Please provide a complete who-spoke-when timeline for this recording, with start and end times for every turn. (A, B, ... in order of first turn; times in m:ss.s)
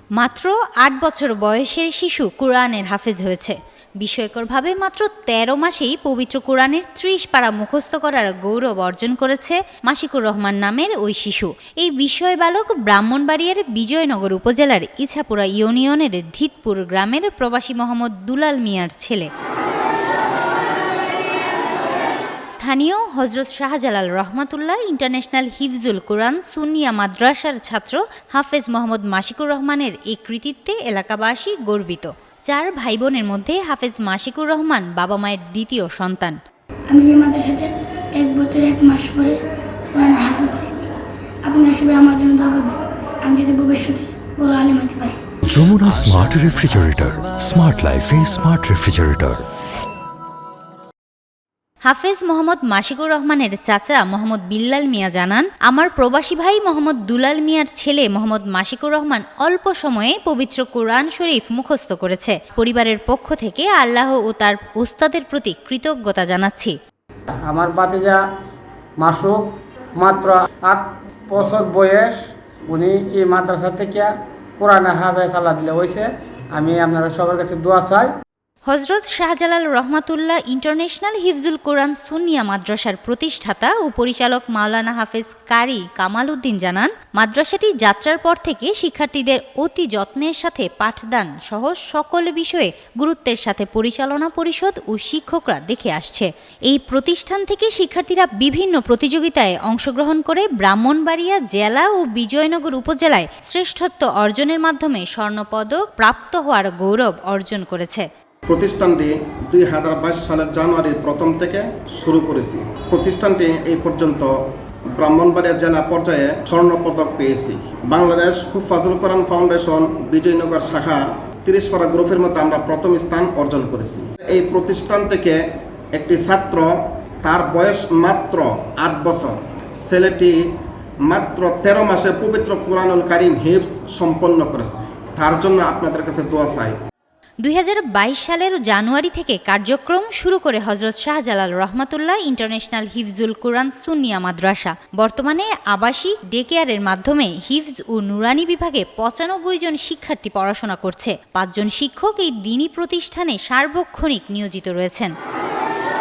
0:00.2-0:19.3 A
0:22.6-0:36.4 A
0:36.9-0:39.4 B
0:39.9-0:40.9 B
0:41.4-0:45.2 B
0:45.5-0:49.5 C
0:51.9-1:06.7 A
1:07.5-1:08.2 D
1:09.0-1:12.2 D
1:12.7-1:18.1 D
1:18.7-1:48.1 A
1:48.5-1:54.3 E
1:55.0-2:05.4 E
2:05.9-2:06.7 E
2:07.2-2:10.4 E
2:11.1-2:16.8 E
2:17.4-2:35.1 A